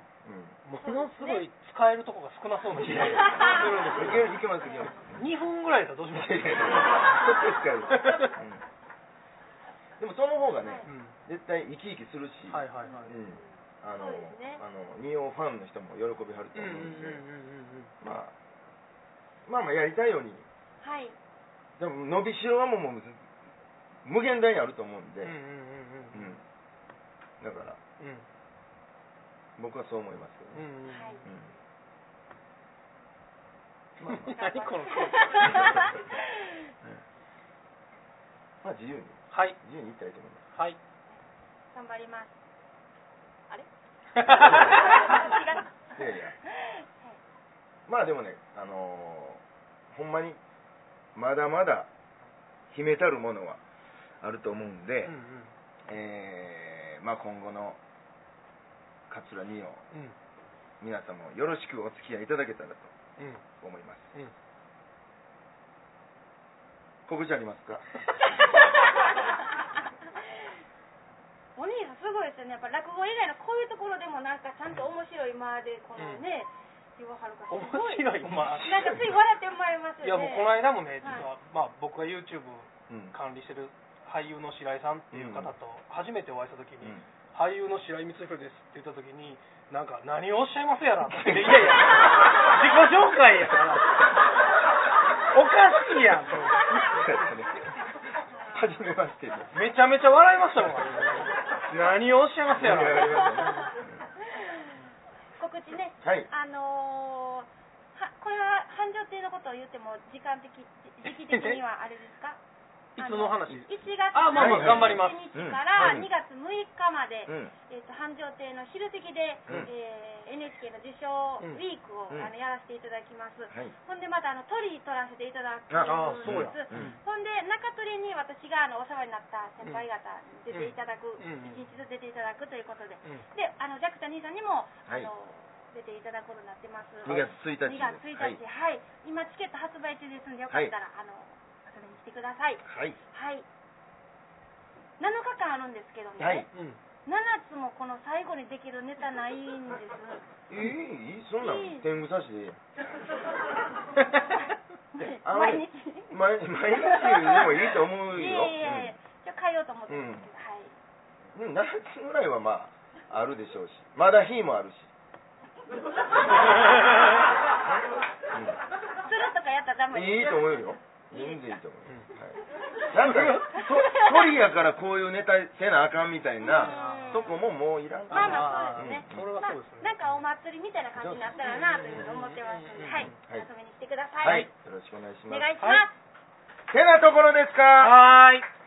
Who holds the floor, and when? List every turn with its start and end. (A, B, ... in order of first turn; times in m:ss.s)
0:00.2-0:00.6 A
0:00.6-0:04.3 B
0:00.8-0:01.4 C
0:02.7-0:05.3 A
0:05.0-0:07.2 B
0:06.1-0:08.6 A
0:07.9-0:08.3 B
0:10.0-0:17.2 A
0:10.6-0:10.9 C
0:10.9-0:11.2 B
0:12.5-0:13.1 B
0:12.8-0:14.6 C
0:16.5-0:17.9 B
0:18.0-0:18.3 A
0:19.4-0:20.4 A
0:20.8-0:21.2 C
0:21.8-0:23.2 A
0:24.0-0:25.4 A
0:25.2-0:26.4 B
0:26.1-0:26.4 A
0:27.4-0:27.8 A
0:28.0-0:28.2 B
0:29.6-0:30.6 A
0:30.5-0:31.2 B
0:30.9-0:31.2 C
0:31.2-0:31.5 A
0:34.0-0:34.3 A
0:34.0-0:35.9 B
0:34.2-0:36.7 C
0:38.6-0:40.4 A
0:39.3-0:39.6 B
0:41.7-0:42.4 C
0:44.2-0:44.8 B
0:44.2-0:45.7 C
0:44.4-0:44.8 A
0:45.9-0:46.3 A
0:46.4-0:47.2 C
0:47.9-0:50.4 A
0:51.1-0:51.9 A
0:52.7-0:53.6 A
0:54.2-0:55.2 A
0:55.0-0:55.5 B
0:55.9-0:57.8 A
0:59.1-0:59.8 A
1:00.8-1:02.9 A
1:03.2-1:03.4 B
1:03.6-1:04.1 A
1:07.1-1:07.8 A
1:08.3-1:09.7 C
1:11.5-1:21.3 C
1:16.0-1:16.2 B
1:17.5-1:19.2 B
1:20.0-1:34.1 B
1:22.9-1:23.1 A
1:25.1-1:25.5 A
1:31.1-1:31.8 A
1:35.3-1:36.9 B
1:36.7-1:37.7 A
1:38.5-1:39.5 A
1:39.5-1:43.7 B
1:42.5-1:43.8 A
1:42.9-1:44.7 C
1:45.4-1:52.4 C
1:46.0-1:46.3 A
1:51.0-1:51.6 B
1:53.0-1:55.2 B
1:53.0-2:23.4 C
1:54.3-1:56.1 A
1:55.8-1:56.0 B
1:57.3-1:57.5 A
2:05.7-2:07.0 A
2:05.8-2:07.0 B
2:10.5-2:11.6 B
2:17.0-2:18.4 A
2:20.5-2:20.7 A
2:22.6-2:23.0 A
2:25.0-2:26.5 C
2:26.2-2:26.5 A
2:26.5-2:26.8 B
2:27.0-2:30.3 C
2:30.5-2:32.6 A
2:31.4-2:31.9 C
2:34.2-2:36.2 C
2:35.0-2:38.9 A
2:36.8-2:40.8 C
2:39.9-2:40.3 A
2:41.3-2:44.9 A
2:48.3-2:48.6 A
2:49.0-2:50.4 C
2:49.9-2:59.3 A
2:51.1-2:51.6 C
2:51.8-2:52.1 B
2:52.9-2:53.6 B
2:53.5-2:54.4 C
2:56.4-2:57.4 C
2:56.6-2:57.2 B
2:58.1-3:00.1 B
2:58.1-3:04.5 C
3:01.0-3:01.4 A
3:01.4-3:03.2 B
3:03.0-3:03.5 A
3:04.2-3:05.5 A
3:05.3-3:05.9 C
3:05.6-3:05.8 B
3:06.7-3:08.0 A
3:07.8-3:08.4 B